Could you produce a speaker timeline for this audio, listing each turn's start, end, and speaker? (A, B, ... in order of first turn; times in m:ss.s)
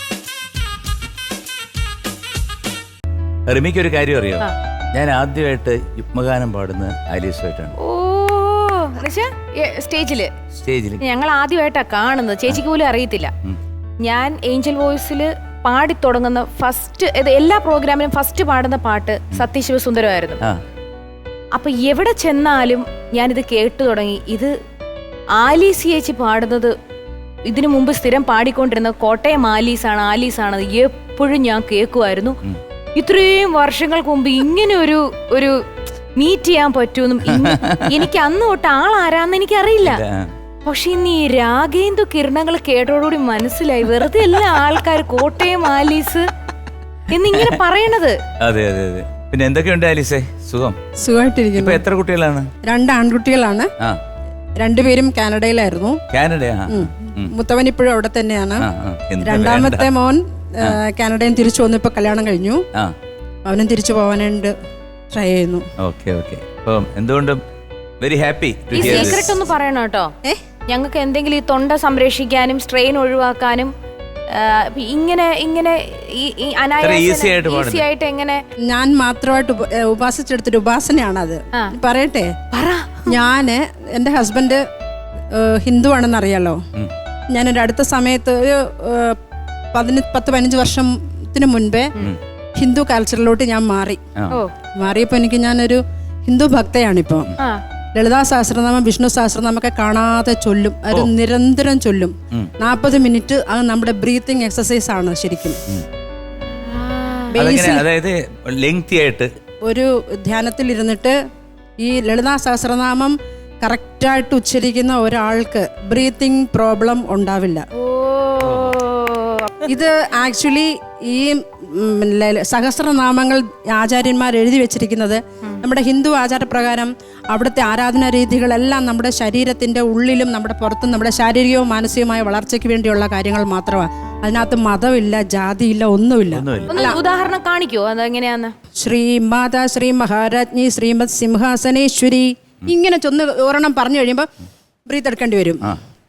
0:03.5-0:07.8 A
0:07.8-0:10.3 B
0:10.6-0:11.0 A
0:11.0-0:13.3 B
0:14.0-0:20.4 B
0:21.5-0:24.5 B
0:25.4-0:26.7 B
0:27.5-0:32.4 B
0:33.0-0:35.6 B
0:36.2-0:40.0 B
0:37.2-0:38.0 A
0:39.8-0:40.3 A
0:40.6-0:46.3 B
0:47.1-0:48.2 B
0:47.2-0:47.6 A
0:48.4-0:50.8 A
0:51.0-0:51.8 C
0:51.5-0:52.5 A
0:52.6-0:53.7 C
0:54.6-0:56.0 C
0:56.1-0:57.3 A
0:56.7-0:58.6 C
0:58.6-0:59.9 A
0:59.2-1:02.6 C
1:03.4-1:04.5 C
1:05.1-1:05.6 C
1:05.8-1:07.4 A
1:08.0-1:09.4 A
1:08.7-1:10.1 B
1:08.8-1:09.2 C
1:10.7-1:13.7 B
1:14.3-1:18.4 B
1:16.8-1:17.8 A
1:18.7-1:22.3 C
1:22.5-1:23.2 B
1:23.1-1:24.6 C
1:25.3-1:26.6 C
1:27.3-1:29.2 C
1:29.7-1:32.0 C
1:32.6-1:34.0 C
1:34.8-1:37.3 C
1:37.9-1:45.6 C
1:46.6-1:47.3 B
1:47.3-1:47.8 C
1:47.3-1:49.3 A
1:49.6-1:51.2 C
1:51.8-1:57.6 C
1:57.8-1:59.6 B
1:58.4-1:58.8 A
1:59.6-2:17.0 C
2:16.3-2:16.7 A
2:16.7-2:18.5 B
2:18.8-2:24.3 C
2:24.9-2:25.6 C